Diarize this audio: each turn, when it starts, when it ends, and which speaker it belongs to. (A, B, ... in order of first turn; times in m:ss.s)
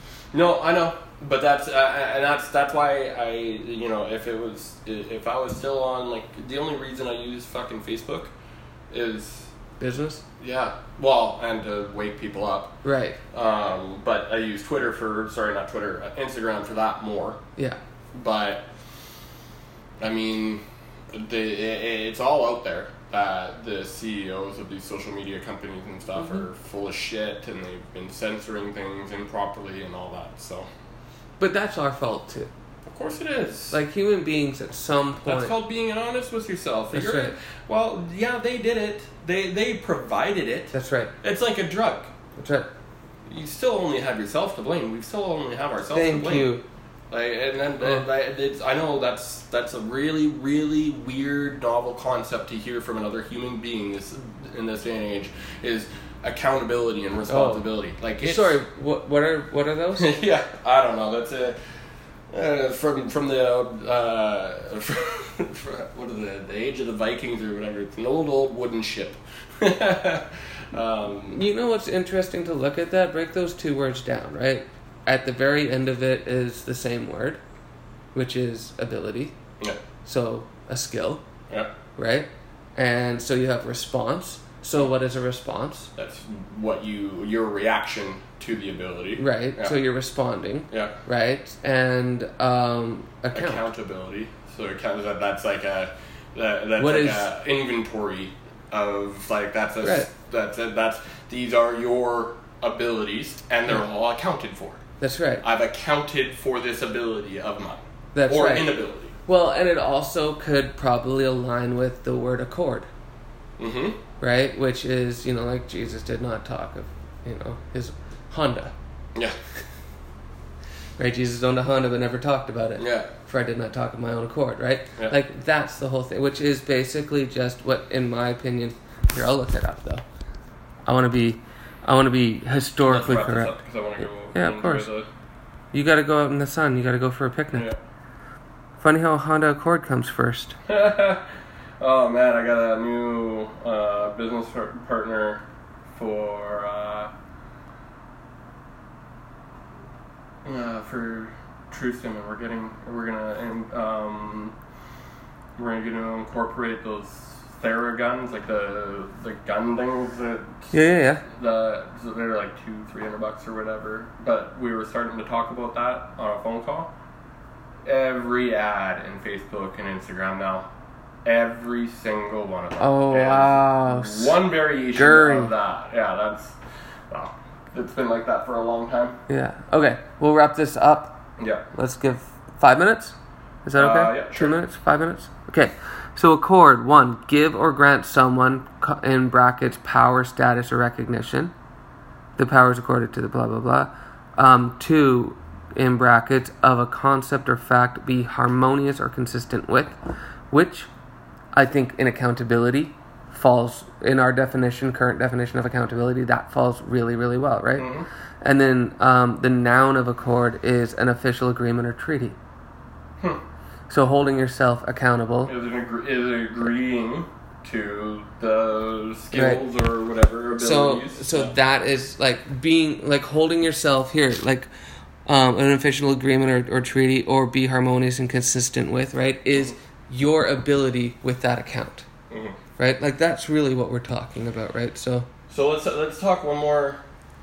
0:00.3-0:08.3 A
0:08.9-0:09.5 A
0:09.8-0:10.2 B
0:10.4-0:12.8 A
0:12.8-0:13.2 B
0:13.3-0:17.4 A
0:18.1-0:18.7 A
0:20.0-0:30.7 A
0:31.4-0:32.5 B
0:32.9-0:33.8 A
0:33.7-0:35.6 B
0:35.2-0:42.1 A
0:36.9-0:37.3 B
0:40.7-0:41.1 B
0:42.4-0:42.7 B
0:43.3-0:46.5 A
0:45.9-0:46.6 B
0:47.1-0:58.6 A
0:57.3-1:00.1 B
1:00.0-1:01.6 A
1:02.3-1:11.4 A
1:11.3-1:17.4 B
1:18.1-1:19.4 B
1:20.0-1:21.2 B
1:22.0-1:25.9 B
1:26.0-1:29.8 A
1:29.2-1:33.6 B
1:30.7-1:31.0 A
1:33.3-1:44.8 A
1:36.8-1:37.3 B
1:39.8-1:40.1 B
1:45.0-1:45.4 B
1:45.4-1:49.2 A
1:48.2-1:52.9 B
1:53.6-1:54.0 A
1:54.2-1:58.7 B
2:01.0-2:10.0 B
2:02.8-2:03.1 A
2:10.9-2:13.6 B
2:12.9-2:15.1 A
2:14.3-2:14.9 B
2:15.7-2:17.7 B
2:18.8-2:20.6 B
2:20.7-2:21.3 A
2:21.8-2:27.1 A
2:30.4-2:34.6 A
2:35.6-2:40.8 A
2:40.7-2:41.2 B
2:41.3-2:46.9 A
2:47.8-2:50.7 A
2:51.2-2:56.6 A
2:52.8-2:54.4 B
2:54.9-2:55.5 B
2:57.1-2:59.2 A
2:59.3-3:11.5 B
3:01.4-3:01.6 A
3:03.8-3:04.6 A
3:12.4-3:20.0 B
3:20.5-3:20.9 B
3:21.5-3:32.4 B
3:27.8-3:28.1 A
3:33.9-3:35.5 B
3:35.4-3:41.6 A
3:39.3-3:39.6 B
3:40.6-3:44.7 B
3:45.2-3:52.1 B
3:52.3-3:52.6 A
3:52.8-3:55.3 B
3:55.5-3:57.0 A